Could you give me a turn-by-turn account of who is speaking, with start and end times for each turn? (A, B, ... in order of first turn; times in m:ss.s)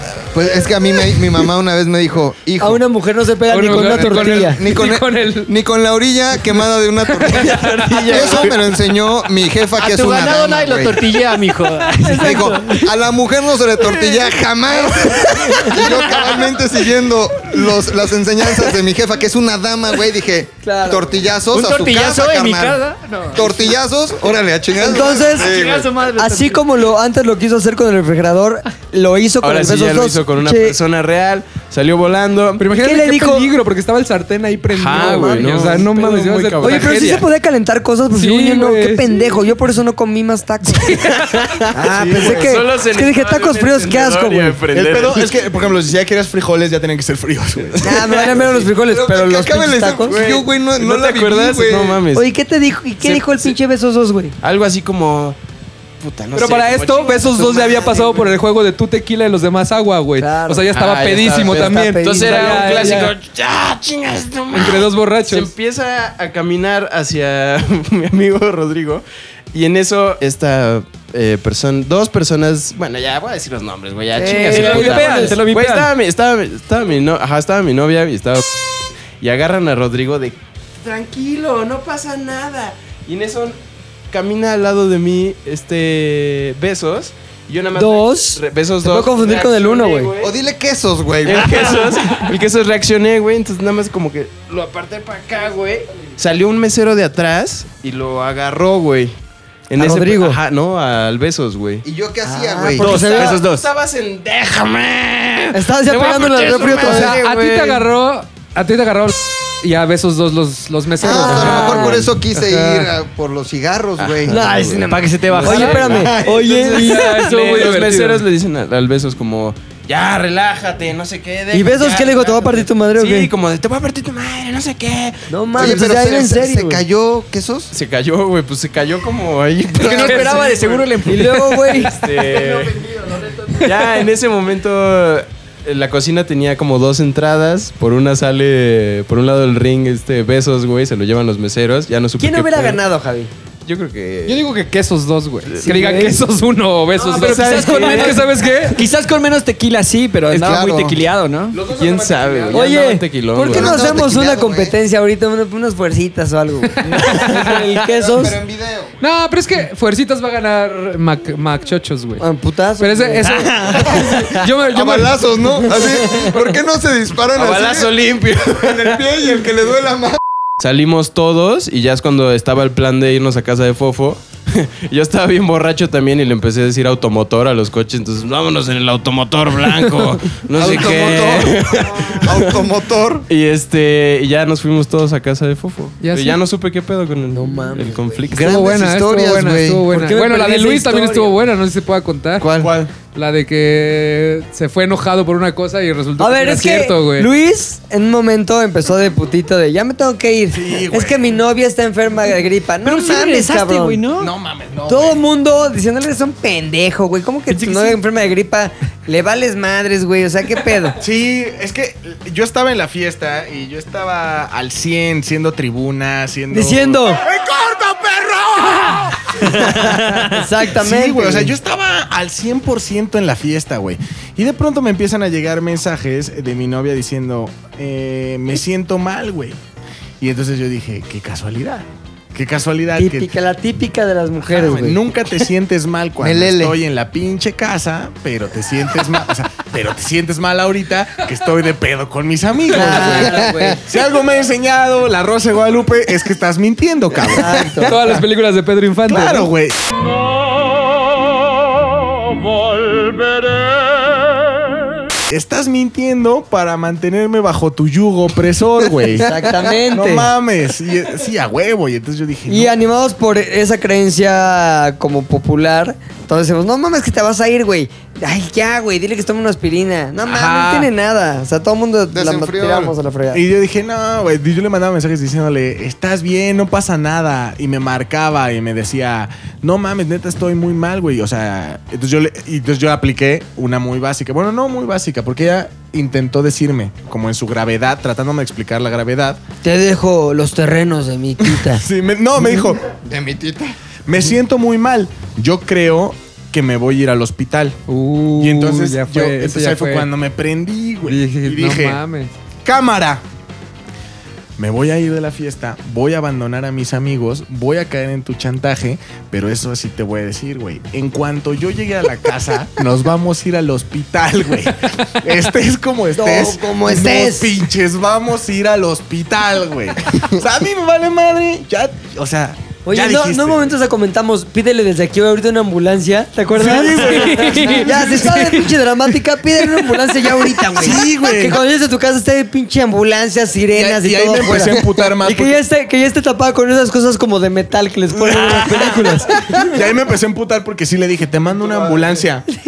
0:00.3-0:02.8 A
0:02.6-0:04.6 B
0:03.5-0:05.5 C
0:03.8-0:11.2 A
0:07.1-0:08.2 C
0:07.3-0:08.5 D
0:09.8-0:12.8 E
0:11.9-0:12.6 C
0:12.1-0:22.8 A
0:15.6-0:16.6 E
0:20.6-0:21.3 B
0:21.5-0:23.8 E
0:23.3-0:25.9 A
0:24.8-0:25.6 B
0:24.8-0:26.6 E
0:26.2-0:30.8 B
0:29.4-0:32.7 D
0:32.6-0:37.3 C
0:32.7-0:33.5 B
0:34.7-0:37.1 D
0:35.0-0:35.4 B
0:36.6-0:41.0 B
0:38.1-0:39.4 C
0:40.7-0:41.4 C
0:41.0-0:45.4 D
0:41.7-0:44.6 B
0:42.2-0:42.4 F
0:44.7-0:47.9 F
0:47.6-0:48.7 D
0:47.8-0:50.2 B
0:48.7-0:52.0 A
0:50.0-0:52.3 D
0:52.1-0:54.4 B
0:53.0-0:53.6 D
0:54.4-0:55.4 D
0:56.0-0:58.2 D
0:56.3-1:03.1 C
0:57.4-0:58.2 B
1:00.2-1:00.7 B
1:00.7-1:18.6 D
1:01.3-1:03.0 B
1:04.5-1:05.5 C
1:14.2-1:15.9 E
1:14.2-1:15.3 B
1:14.5-1:15.7 C
1:19.2-1:23.6 D
1:24.1-1:30.4 D
1:27.8-1:30.1 B
1:30.2-1:31.7 A
1:31.2-1:39.2 D
1:39.7-1:41.8 D
1:39.8-1:40.4 B
1:41.8-1:43.1 A
1:42.2-1:43.4 B
1:42.8-1:43.7 E
1:42.8-1:47.9 D
1:45.5-1:47.2 B
1:46.8-1:52.9 C
1:51.0-1:54.5 A
1:51.0-1:52.0 B
1:54.0-2:05.9 D
1:54.3-1:57.1 B
1:54.8-1:56.0 E
1:55.5-1:55.8 C
1:56.4-1:58.2 C
2:01.5-2:03.3 B
2:05.3-2:06.8 B
2:05.6-2:07.7 A
2:07.7-2:11.1 D
2:09.8-2:11.7 E
2:11.1-2:12.0 B
2:11.8-2:22.8 D
2:22.2-2:23.3 B
2:23.7-2:24.5 D
2:24.3-2:28.8 C
2:25.6-2:26.2 B
2:27.0-2:28.3 D
2:27.0-2:31.6 E
2:30.3-2:31.0 A
2:31.5-2:32.8 F
2:31.7-2:34.0 D
2:32.5-2:38.4 B
2:33.4-2:34.8 A
2:36.8-2:37.6 C
2:37.7-2:38.9 A
2:39.0-2:42.2 C
2:42.2-2:44.0 B
2:42.8-2:45.5 C
2:44.6-2:50.2 A
2:46.0-2:46.3 B
2:47.3-2:49.5 D
2:50.6-3:02.6 D
3:00.6-3:03.3 A
3:03.3-3:08.6 D
3:06.0-3:06.4 C
3:07.3-3:08.2 B
3:08.3-3:09.8 A
3:08.4-3:17.3 C
3:09.9-3:11.4 B
3:12.4-3:12.7 A
3:12.6-3:13.0 F
3:16.2-3:24.0 B
3:20.5-3:21.3 F
3:22.8-3:24.3 E
3:24.2-3:25.2 F
3:24.9-3:31.0 B
3:31.0-3:37.0 F
3:36.5-3:37.2 B
3:37.2-3:39.3 G
3:39.4-3:41.6 B
3:39.4-3:39.7 F
3:40.6-3:49.6 F
3:50.2-3:53.3 F
3:53.0-3:55.0 B
3:54.5-3:54.8 D
3:54.6-4:08.2 F
3:56.2-3:56.8 A
4:02.7-4:03.8 B
4:07.3-4:08.0 B
4:07.8-4:09.5 C
4:09.1-4:09.8 F
4:15.3-4:22.7 F
4:19.2-4:20.3 B
4:22.5-4:33.4 B
4:30.2-4:30.9 F
4:32.1-4:33.0 A
4:33.3-4:49.4 F
4:49.6-4:51.8 B
4:51.4-4:52.9 F
4:53.0-4:53.8 A
4:54.1-4:57.8 F
4:57.9-5:00.1 C
4:58.4-5:02.0 F
5:01.0-5:02.3 C
5:02.6-5:03.2 F
5:04.6-5:23.8 F
5:16.1-5:17.5 B
5:22.8-5:39.7 B
5:26.5-5:28.4 F
5:27.0-5:28.7 C
5:30.7-5:31.6 F
5:33.7-5:35.6 F
5:38.1-5:42.5 F